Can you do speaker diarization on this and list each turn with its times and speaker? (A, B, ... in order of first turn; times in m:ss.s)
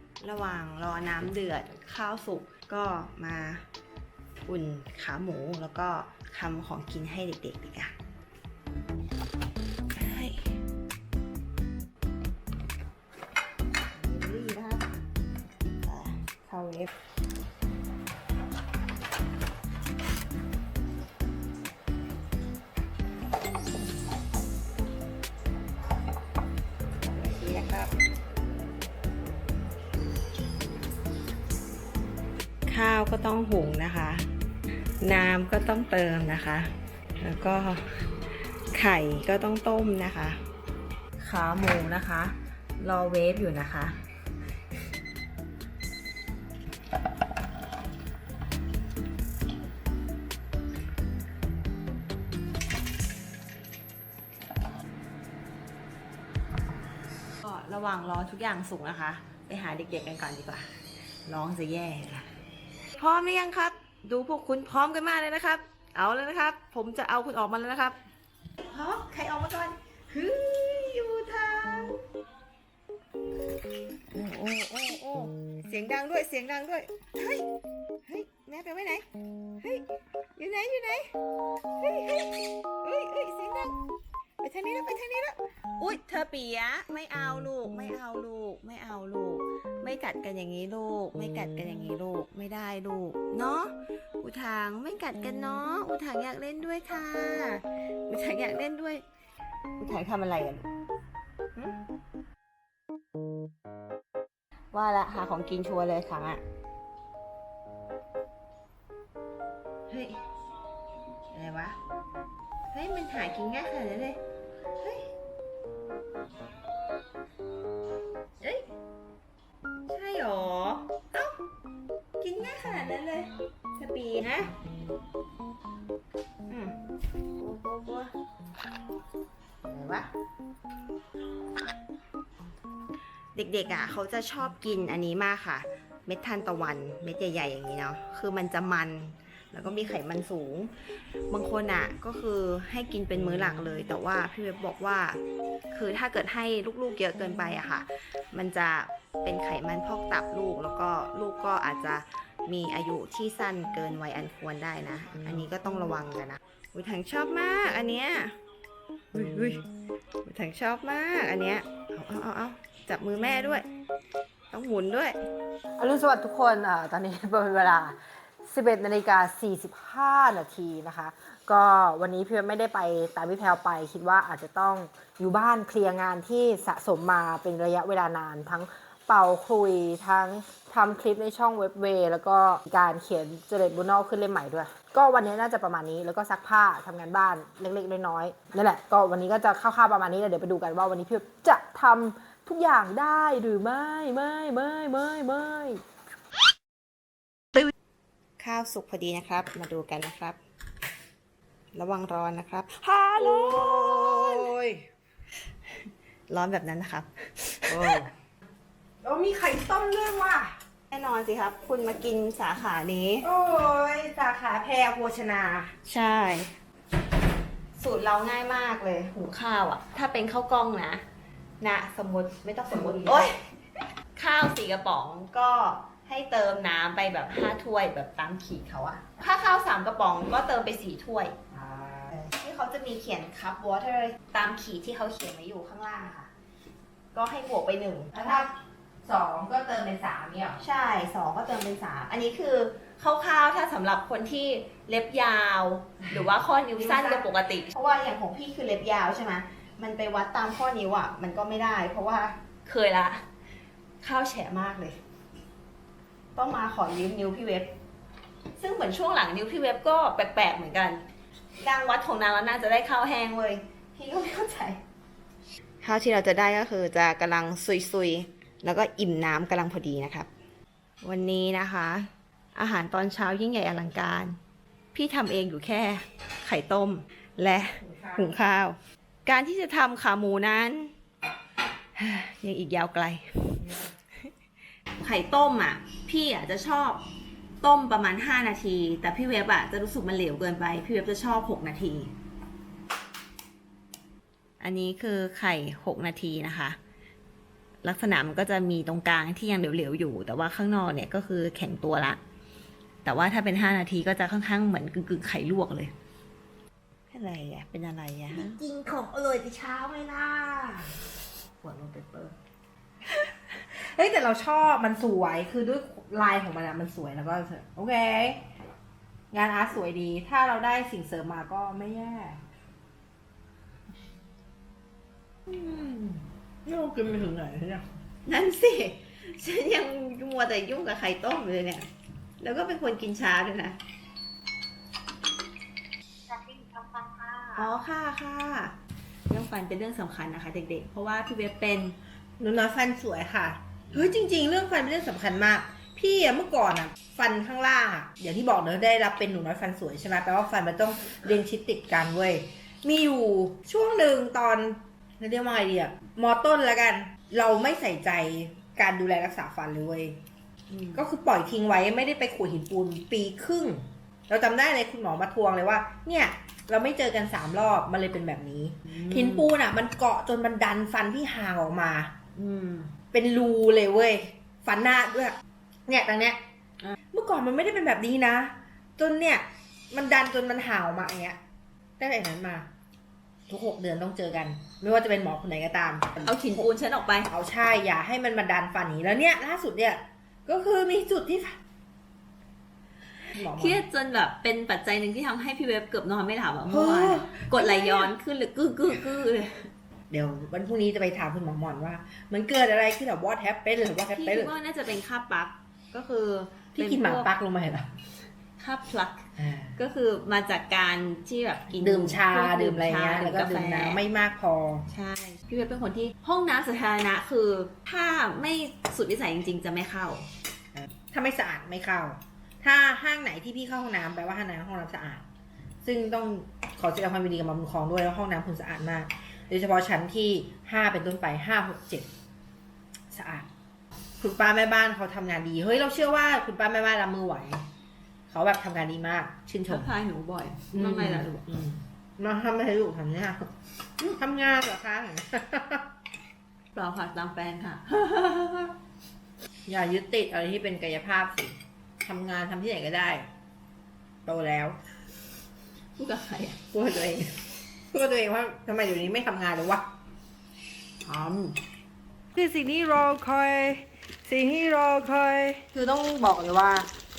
0:00.2-0:03.6 A
0:04.4-0:08.0 A
0:10.0-0:10.4 A
0:13.9-0:14.9 A
0:15.8-0:16.9 A
0:27.1-0:27.9 A
0:32.7-0:34.3 A
0:35.0-0:38.0 A
0:38.7-0:40.4 A
0:41.2-0:44.0 A
0:57.4-1:00.7 A
1:01.2-1:02.3 A
1:03.0-1:08.0 A
1:08.7-1:12.0 A
1:14.1-1:17.4 A
1:18.0-1:19.0 A
1:19.6-1:21.1 A
1:21.8-1:23.8 A
1:24.4-1:39.0 A
1:39.8-1:40.7 A
1:44.7-1:46.4 A
1:49.9-1:50.2 A
1:51.3-1:51.8 A
1:52.7-1:54.2 A
1:54.8-1:55.1 A
1:58.4-1:58.7 A
1:59.9-2:01.4 A
2:02.2-2:04.5 A
2:06.5-2:06.8 A
2:07.4-2:08.1 A
2:09.6-2:10.1 A
2:13.3-2:20.7 A
2:21.3-2:25.2 A
2:25.7-2:38.3 A
2:39.1-2:39.6 A
2:40.2-2:43.7 A
2:44.5-2:45.3 A
2:45.8-3:15.8 B
3:18.4-3:20.4 A
3:21.7-3:24.5 A
3:22.8-3:24.8 B
3:26.3-3:28.1 A
3:27.7-3:28.1 B
3:29.0-3:30.6 B
3:30.9-3:33.2 A
3:33.2-3:35.8 B
3:35.8-3:36.5 A
3:37.8-3:41.0 A
3:41.6-3:43.4 A
3:42.7-3:43.3 B
3:44.1-3:51.4 A
3:51.5-3:52.1 B
3:52.2-3:56.3 A
3:57.1-3:58.4 A
3:58.1-3:58.5 B
3:59.0-4:00.6 B
4:00.6-4:13.2 A
4:06.8-4:07.2 B
4:14.0-4:15.0 A
4:16.3-4:17.7 A
4:18.6-4:21.0 A
4:21.6-4:24.8 A
4:25.8-4:30.3 A
4:31.0-4:34.4 A
4:34.9-4:40.9 A
4:37.8-4:38.3 B
4:42.0-4:43.6 A
4:45.0-4:47.0 A
4:47.6-4:52.1 A
4:54.6-4:56.8 A
4:57.8-5:02.2 A
5:03.0-5:05.9 A
5:07.1-5:10.9 A
5:11.6-5:12.3 A
5:13.5-5:18.4 B
5:19.3-5:22.4 B
5:25.5-5:27.9 B
5:28.2-5:31.9 A
5:32.4-5:33.8 A
5:37.5-5:38.8 A
5:39.3-5:42.0 A
5:42.4-6:00.2 B
6:00.7-6:01.0 A
6:00.9-6:12.2 B
6:12.4-6:12.9 A
6:13.1-6:16.4 B
6:17.1-6:21.4 B
6:22.0-6:22.7 B
6:23.5-6:31.6 B
6:26.2-6:27.3 A
6:33.3-6:39.7 A
6:33.3-6:33.8 B
6:36.7-6:38.1 B
6:40.1-6:44.5 B
6:44.1-6:47.3 A
6:46.8-6:47.9 B
6:48.6-6:54.0 A
6:49.4-6:49.7 B
6:51.8-6:54.9 B
6:54.9-7:00.3 A
7:00.8-7:05.2 B
7:05.8-7:12.1 B
7:13.1-7:13.5 B
7:14.2-7:17.7 B
7:18.3-7:19.9 B
7:19.7-7:21.5 A
7:20.7-7:25.9 B
7:26.7-7:28.8 A
7:29.7-7:33.3 B
7:34.2-7:34.8 B
7:36.0-7:36.6 A
7:36.7-7:39.9 B
7:41.0-7:41.6 A
7:42.3-7:46.9 B